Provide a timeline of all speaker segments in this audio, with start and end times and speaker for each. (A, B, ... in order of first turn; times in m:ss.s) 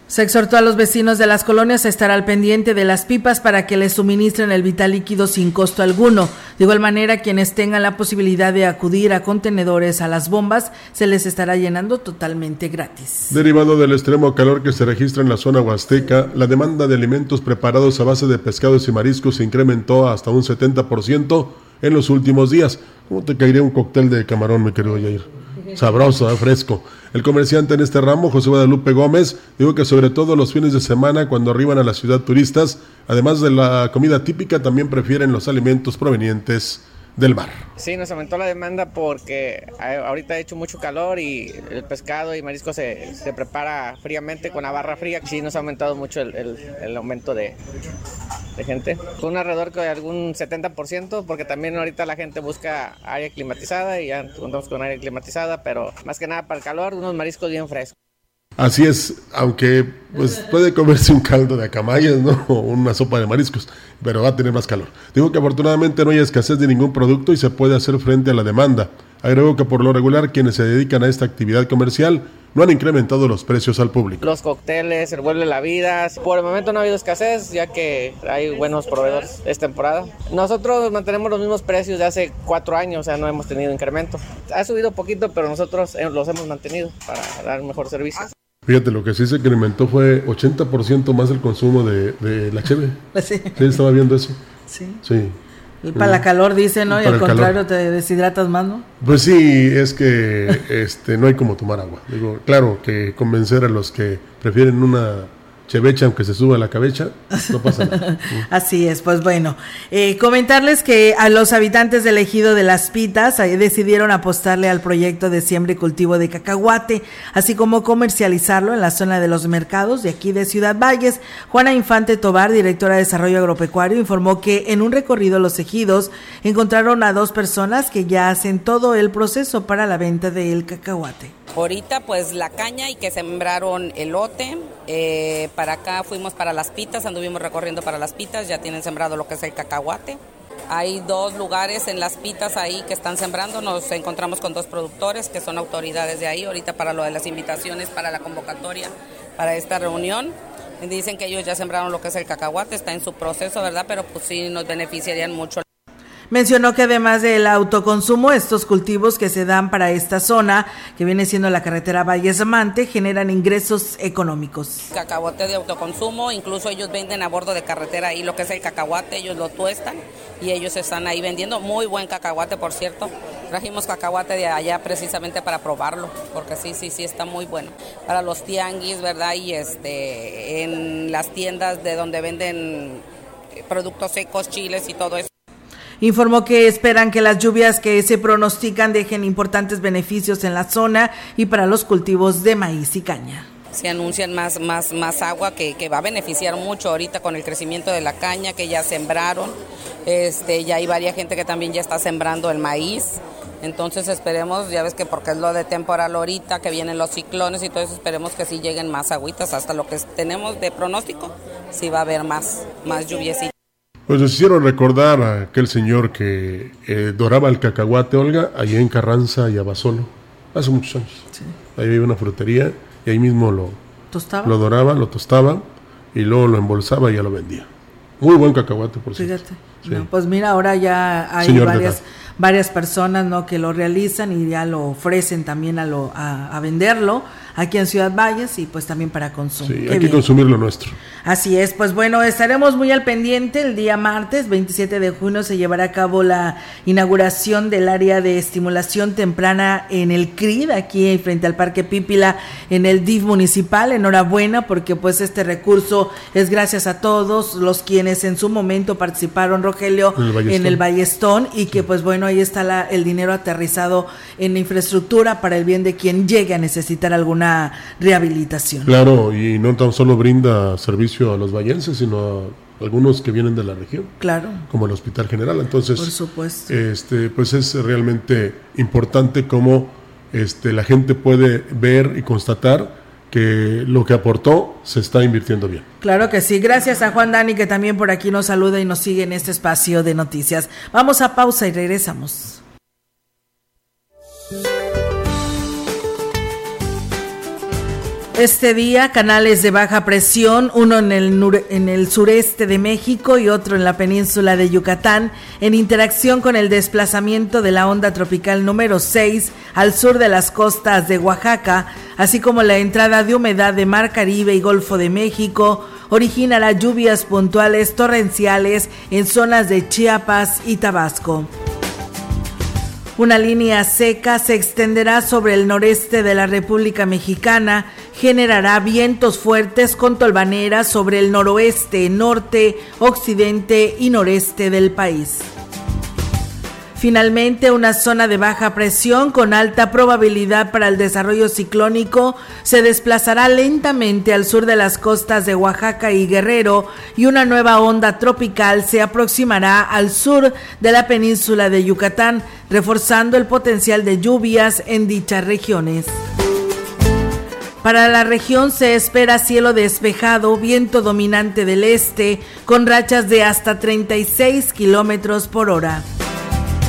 0:00.1-0:13.4 A
0:13.3-0:37.7 B
0:37.8-0:47.6 C
0:48.6-0:58.0 C
0:58.6-1:14.2 B
1:14.2-1:28.3 C
1:28.7-1:33.0 B
1:33.1-1:33.6 A
1:33.6-1:34.4 B
1:34.7-1:35.0 A
1:35.0-1:35.4 B
1:35.8-1:38.9 A
1:35.9-1:36.3 B
1:36.9-1:37.6 B
1:39.0-1:48.5 B
1:47.4-2:11.3 A
2:11.5-2:20.2 D
2:20.7-2:35.6 D
2:36.3-2:44.9 A
2:44.9-3:03.0 D
3:03.7-3:05.3 D
3:06.0-3:13.5 A
3:13.7-3:33.5 D
3:34.1-3:41.2 B
3:41.8-3:43.8 B
3:44.1-3:44.6 A
3:44.4-3:47.7 B
3:48.2-3:50.1 B
3:49.2-4:00.2 A
3:51.4-3:52.0 B
3:59.6-4:01.0 B
4:01.2-4:28.9 A
4:20.2-4:20.8 B
4:28.8-4:34.1 B
4:34.2-4:34.6 A
4:34.7-4:36.1 B
4:36.0-4:36.7 A
4:36.7-4:45.8 B
4:46.0-4:52.6 A
4:58.4-5:21.5 A
5:23.2-5:35.5 A
5:37.0-5:56.1 A
5:57.8-6:06.0 A